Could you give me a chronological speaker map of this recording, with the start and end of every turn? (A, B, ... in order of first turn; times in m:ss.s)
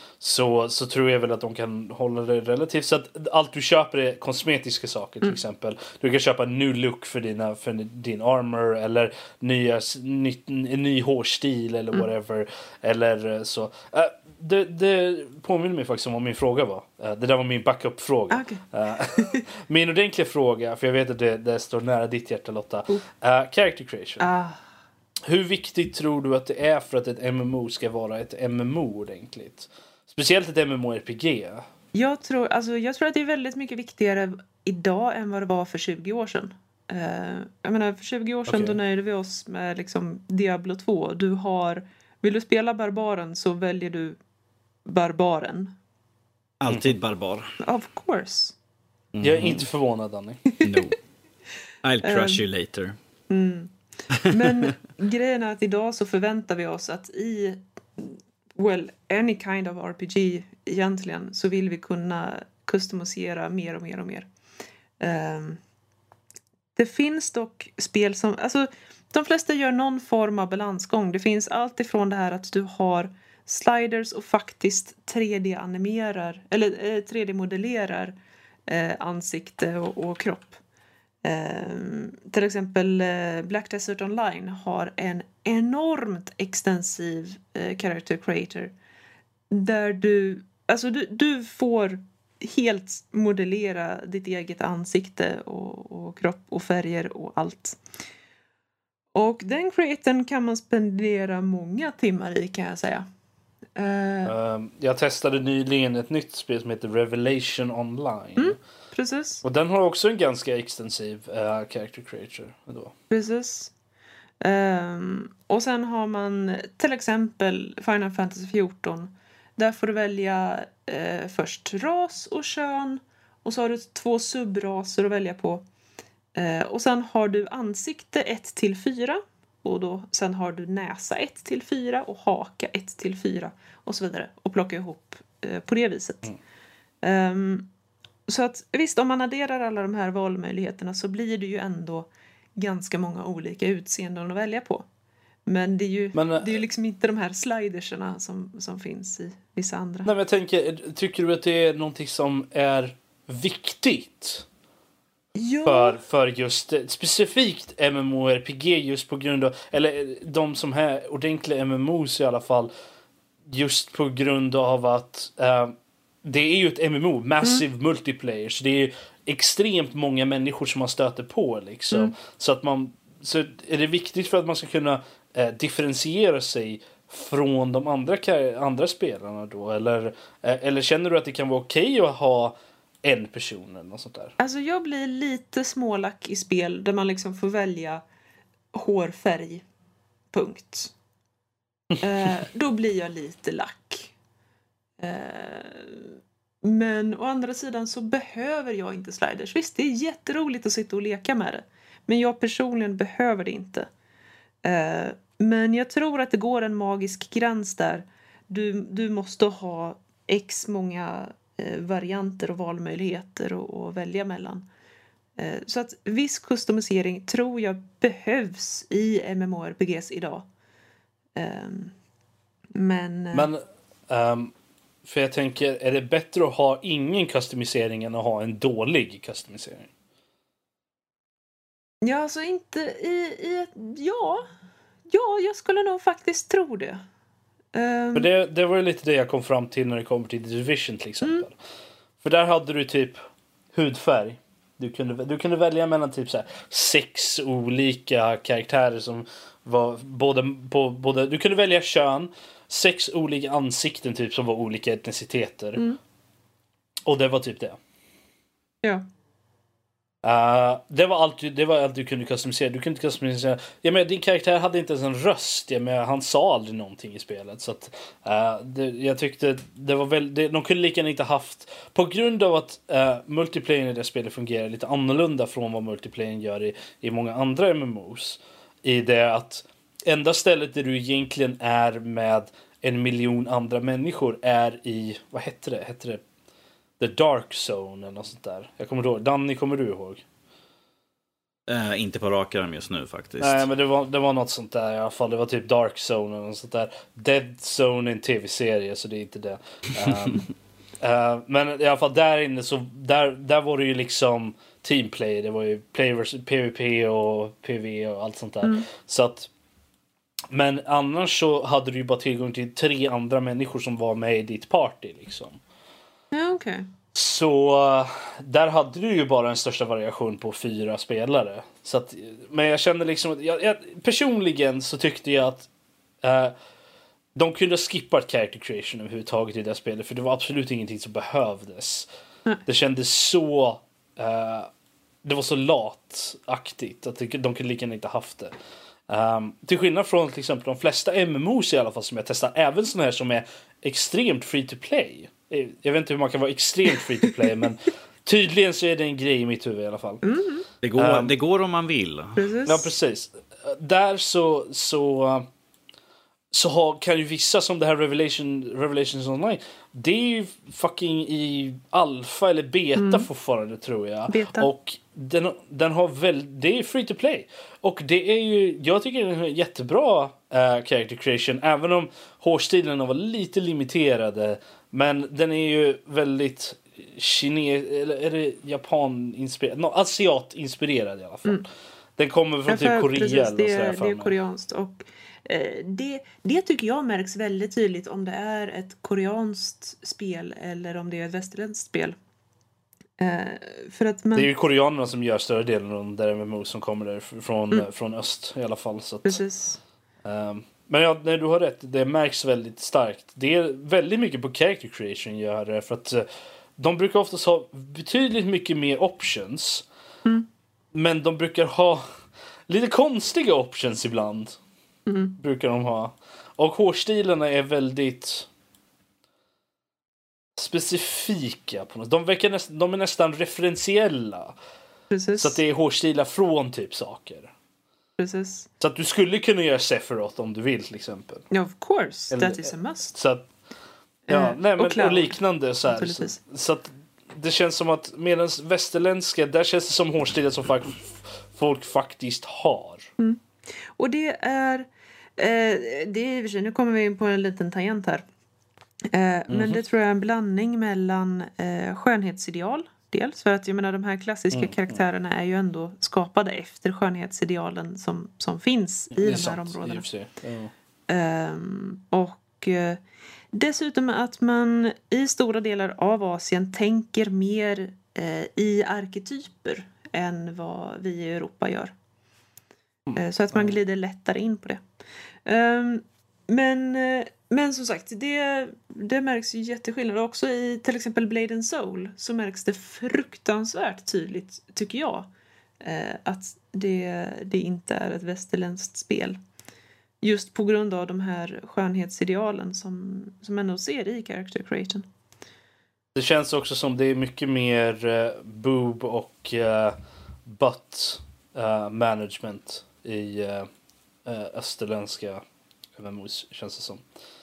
0:00.2-0:24.3 A
0:18.3-0:18.6 B
0:24.2-0:24.6 B
0:25.2-0:31.6 A
0:31.9-0:44.2 B
0:38.5-0:38.8 A
0:44.8-0:45.7 B
0:46.6-0:47.5 C
0:47.6-0:48.6 B
0:49.1-0:49.6 C
0:49.2-0:50.4 A
0:50.6-0:50.9 B
0:50.6-0:51.0 C
0:51.8-0:53.0 C
0:52.0-0:52.4 B
0:53.3-1:04.3 B
0:54.1-0:54.7 C
1:05.0-1:05.6 B
1:06.8-1:18.2 B
1:18.7-1:20.6 B
1:21.2-1:28.7 B
1:29.5-1:37.8 B
1:39.1-1:43.0 B
1:43.7-1:44.3 B
1:44.2-1:48.6 A
1:48.4-1:49.4 B
1:49.4-1:52.9 A
1:53.1-1:53.7 B
1:54.4-2:05.6 B
2:06.3-2:16.3 B
2:17.0-2:17.7 B
2:18.3-2:24.8 B
2:25.4-2:30.1 B
2:26.1-2:26.6 A
2:30.0-2:34.4 A
2:35.4-2:36.0 B
2:35.6-2:42.7 A
2:43.5-3:04.3 A
3:04.4-3:08.0 B
3:08.7-3:09.6 B
3:10.3-3:10.9 B
3:12.0-3:14.1 B
3:15.0-3:23.9 B
3:24.6-3:34.6 B
3:35.4-3:40.5 B
3:41.3-3:41.9 B
3:42.7-3:43.5 B
3:43.3-3:44.5 A
3:45.0-3:49.9 A
3:52.0-3:54.4 B
3:55.1-3:57.0 B
3:57.7-3:58.3 B
3:58.1-4:01.5 A
4:02.2-4:03.2 A
4:03.7-4:15.9 A
4:17.0-4:17.8 A
4:20.2-4:46.2 A
4:47.0-4:50.2 A
4:51.7-4:53.7 C
4:53.4-5:00.5 A
5:01.0-5:09.5 A
5:10.5-5:15.6 A
5:16.3-5:16.9 B
5:17.1-5:25.7 A
5:26.2-5:26.5 A
5:27.4-5:32.1 A
5:32.6-5:34.7 A
5:35.2-5:38.5 A
5:39.1-5:50.2 A
5:50.2-5:50.6 B
5:50.8-5:52.4 C
5:51.0-5:51.3 A
5:52.4-5:52.9 B
5:52.6-5:55.5 A
5:56.5-6:24.3 A
6:03.0-6:03.3 B
6:04.3-6:04.7 B
6:22.7-6:32.2 B
6:33.2-6:34.5 B
6:34.3-6:39.4 A
6:39.2-6:39.8 B
6:40.2-6:46.3 A
6:46.8-6:49.8 A
6:50.9-6:52.0 A
6:52.7-6:54.6 A
6:55.1-6:55.4 B
6:55.4-6:58.5 A
7:00.6-7:04.6 A
7:05.1-7:05.6 B
7:05.4-7:07.5 A
7:08.2-7:08.7 B
7:08.8-7:11.4 A
7:11.5-7:13.1 B
7:12.3-7:13.5 A
7:14.3-7:16.4 B
7:14.3-7:23.1 A
7:24.0-7:28.2 B
7:29.1-7:40.0 B
7:29.5-7:29.8 A
7:34.5-7:35.0 A
7:39.1-7:40.7 A
7:41.1-7:43.0 B
7:43.5-7:51.9 B
7:53.1-7:53.7 A
7:53.1-7:54.8 B
7:55.4-8:05.3 B
8:05.8-8:09.4 B
8:10.2-8:15.1 B
8:16.1-8:23.7 A
8:24.2-8:25.4 A
8:26.0-8:27.0 A